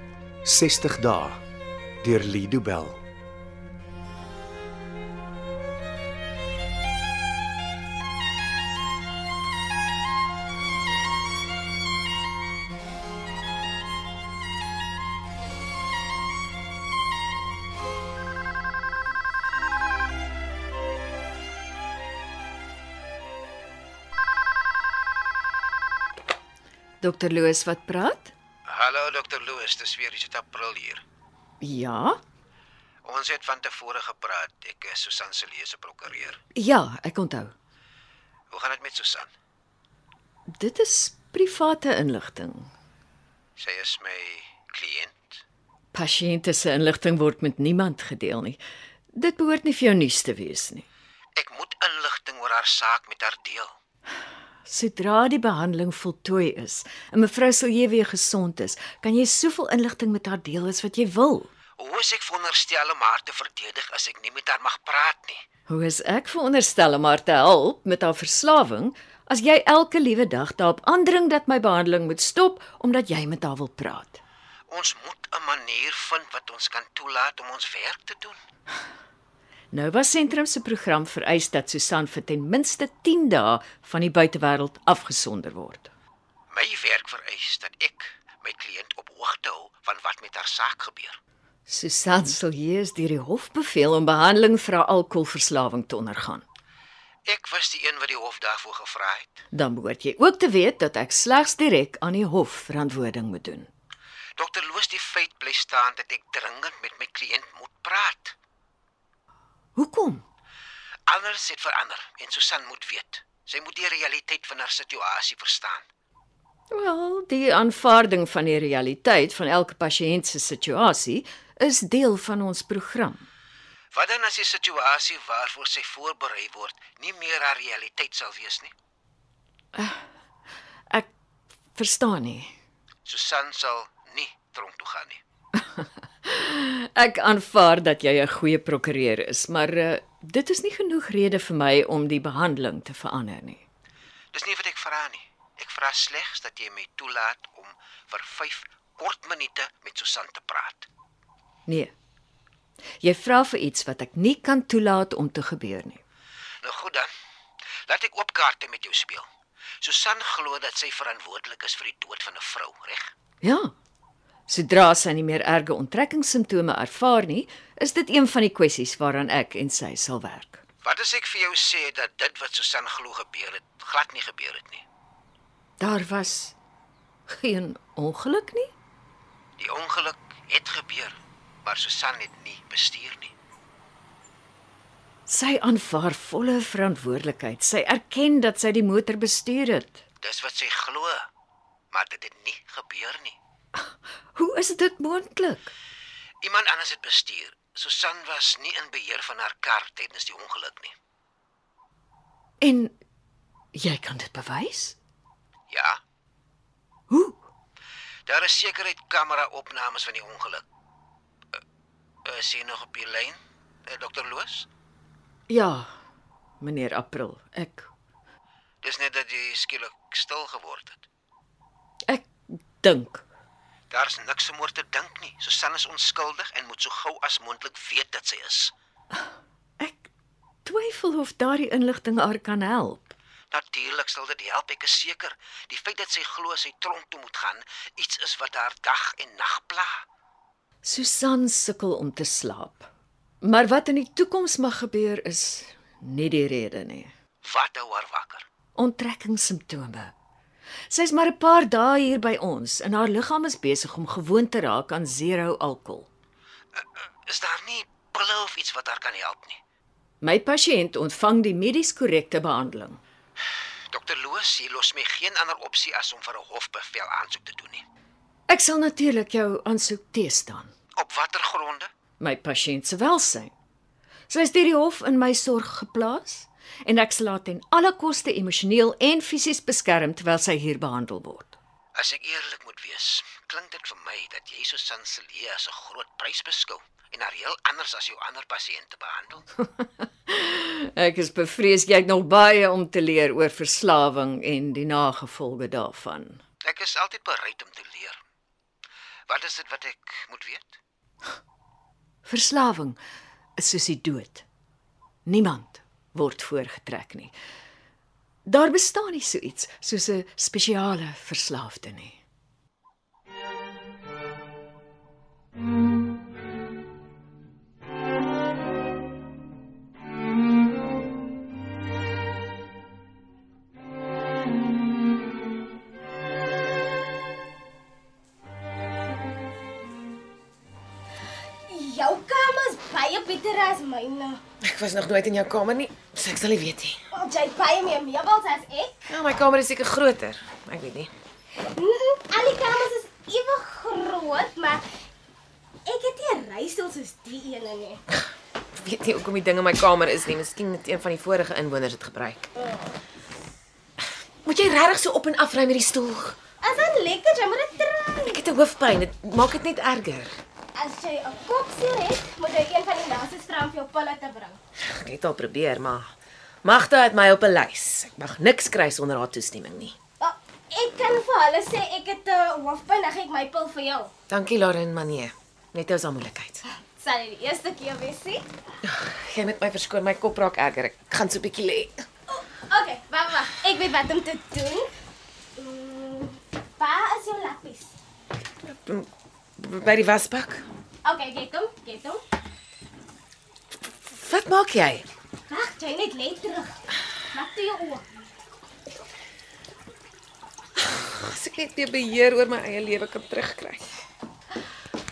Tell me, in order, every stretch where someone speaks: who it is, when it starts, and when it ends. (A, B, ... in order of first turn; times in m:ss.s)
0:00.4-0:01.4 A
0:02.0-0:03.0 A
0:27.0-0:28.3 B
0:28.7-0:31.0 C
0:31.6-0:32.2 B
0:33.0-0:36.4 C
0:36.5-0:37.5 B
0:38.5-0:39.3 C
0:40.5-0:42.7 B
0:43.6-0:45.4 C
0:45.9-0:48.6 B
0:49.1-0:50.8 B
0:51.4-0:53.7 C
0:54.6-1:01.5 B
1:01.8-1:05.4 C
1:05.7-1:14.2 B
1:14.7-1:18.4 C
1:19.7-1:25.9 B
1:26.5-1:31.2 C
1:31.7-1:36.4 B
1:37.2-1:39.4 C
1:39.5-1:43.7 B
1:44.4-1:48.3 C
1:49.8-1:50.2 B
1:51.1-1:55.8 C
1:56.7-2:03.3 B
2:03.9-2:08.7 C
2:09.7-2:10.0 B
2:11.7-2:12.5 B
2:13.0-2:15.2 C
2:15.5-2:23.6 B
2:24.3-2:30.9 C
2:31.7-2:31.9 B
2:33.0-2:36.0 B
2:36.6-2:37.1 C
2:37.9-2:39.3 C
2:39.8-2:43.1 C
2:43.4-2:43.7 B
2:44.5-2:50.6 B
2:50.8-2:54.8 C
2:55.8-2:56.6 B
2:57.3-2:58.7 B
2:59.6-3:03.3 C
3:05.3-3:10.0 B
3:10.2-3:11.2 C
3:11.9-3:13.4 C
3:13.8-3:15.7 B
3:16.4-3:20.9 C
3:22.6-3:23.0 B
3:23.7-3:25.0 B
3:25.7-3:26.0 C
3:27.1-3:27.4 B
3:28.3-3:30.6 C
3:32.2-3:34.7 C
3:35.5-3:35.9 B
3:36.6-3:37.9 B
3:38.8-3:41.0 C
3:42.0-3:43.2 B
3:43.9-3:48.7 C
3:49.8-3:50.1 B
3:50.6-3:53.1 B
3:53.5-4:00.0 C
4:00.8-4:02.9 B
4:03.4-4:07.1 B
4:07.4-4:08.4 C
4:08.7-4:10.1 B
4:10.9-4:16.1 B
4:16.8-4:19.6 C
4:20.2-4:23.0 B
4:23.9-4:27.8 C
4:28.5-4:30.7 B
4:31.0-4:31.9 C
4:32.2-4:33.5 B
4:34.3-4:41.6 B
4:41.9-4:49.5 C
4:49.6-4:56.4 B
4:56.6-4:58.2 C
4:59.3-5:00.8 C
5:02.2-5:03.0 B
5:03.6-5:04.4 B
5:05.2-5:07.3 B
5:08.4-5:12.2 B
5:31.7-5:34.4 D
5:34.6-5:37.0 E
5:37.1-5:39.1 D
5:39.1-5:41.1 E
5:41.7-5:44.8 D
5:45.8-5:48.0 D
5:48.8-5:52.5 E
5:54.4-5:56.4 E
5:56.6-5:58.4 D
5:58.2-6:00.3 E
6:00.7-6:04.6 D
6:04.8-6:06.1 E
6:06.6-6:10.0 E
6:10.2-6:14.1 D
6:14.3-6:16.6 E
6:17.0-6:18.4 D
6:18.8-6:22.0 E
6:22.3-6:24.9 D
6:25.6-6:27.9 D
6:28.7-6:29.1 E
6:29.6-6:30.6 E
6:31.0-6:32.2 D
6:34.1-6:35.1 E
6:35.5-6:38.0 D
6:40.8-6:43.9 E